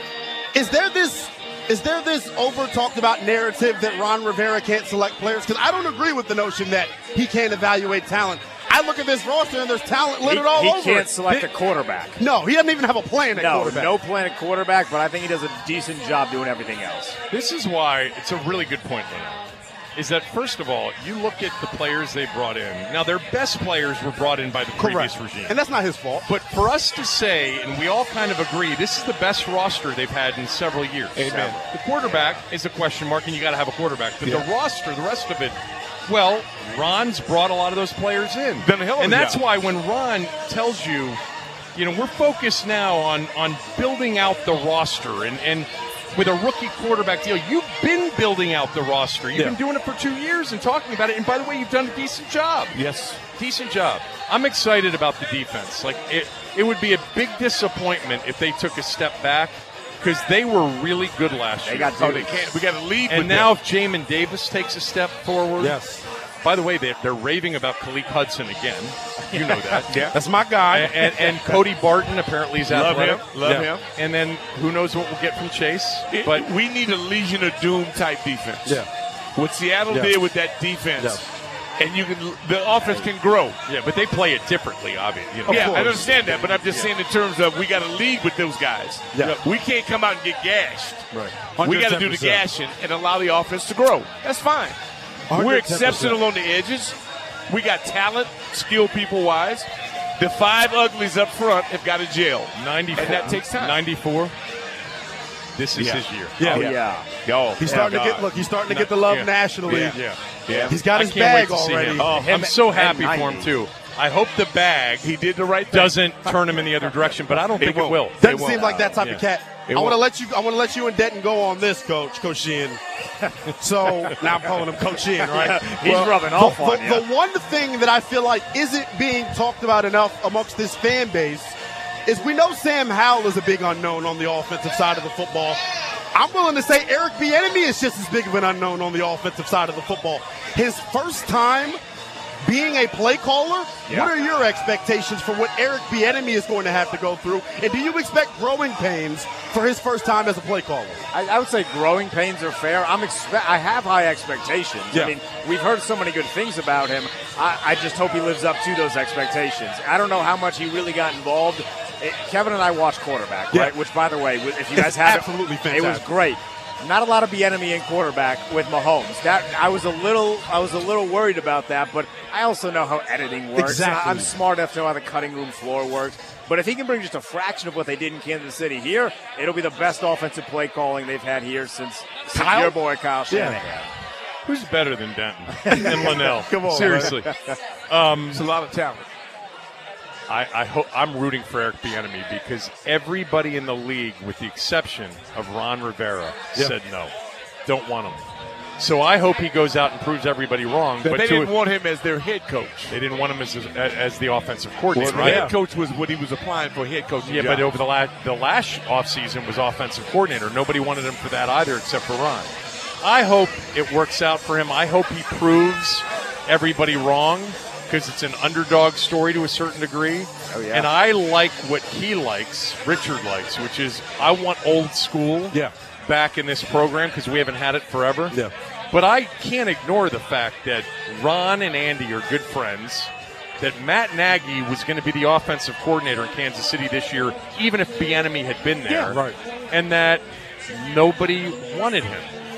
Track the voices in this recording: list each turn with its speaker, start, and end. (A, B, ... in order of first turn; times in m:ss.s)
0:00.5-0:11.5 A
0:10.2-0:12.2 B
0:12.2-0:14.0 A
0:13.3-0:17.2 B
0:17.3-0:19.4 C
0:20.0-0:25.6 C
0:24.8-0:26.3 A
0:26.3-0:41.2 C
0:31.2-0:31.7 D
0:31.3-0:32.4 B
0:38.6-0:39.4 D
0:41.8-0:52.8 C
0:52.7-0:53.2 D
0:53.3-1:02.3 C
1:01.6-1:02.4 B
1:02.0-1:03.5 D
1:03.1-1:05.8 C
1:05.6-1:06.0 A
1:06.4-1:10.1 C
1:09.3-1:09.8 B
1:09.9-1:10.2 D
1:10.1-1:11.4 A
1:10.7-1:16.5 C
1:12.6-1:13.8 D
1:16.1-1:23.6 D
1:19.9-1:20.2 A
1:23.7-1:26.9 C
1:25.5-1:26.0 A
1:25.5-1:31.1 D
1:29.1-1:29.4 A
1:31.1-1:32.4 A
1:31.6-1:34.8 D
1:35.3-1:36.2 A
1:35.3-1:37.0 D
1:37.5-1:43.8 D
1:42.6-1:44.4 C
1:45.6-1:46.6 C
1:45.8-1:48.3 D
1:46.4-1:46.7 A
1:46.5-1:47.1 B
1:47.6-1:50.0 A
1:48.7-1:55.1 C
1:49.7-1:50.8 D
1:50.7-1:52.1 A
1:52.0-1:53.5 B
1:55.0-1:56.1 D
1:55.7-1:59.2 C
1:57.6-1:58.8 D
1:58.2-2:02.8 A
1:59.7-2:00.0 D
2:03.6-2:15.6 A
2:05.2-2:07.1 B
2:16.1-2:21.8 A
2:22.4-2:31.1 A
2:31.1-3:03.9 B
2:44.8-2:46.1 A
2:53.6-2:54.3 A
3:02.3-3:02.8 A
3:03.3-3:03.6 A
3:04.4-3:07.3 C
3:05.6-3:06.1 B
3:05.7-3:07.1 A
3:06.7-3:07.6 B
3:07.9-3:08.4 C
3:08.3-3:09.1 D
3:10.3-3:17.1 C
3:17.7-3:18.2 C
3:18.8-3:21.5 C
3:21.0-3:22.9 D
3:22.9-3:25.5 C
3:25.0-3:25.6 A
3:25.0-3:27.7 D
3:27.2-3:48.4 C
3:40.5-3:40.9 B
3:48.9-4:02.3 C
3:59.1-3:59.4 A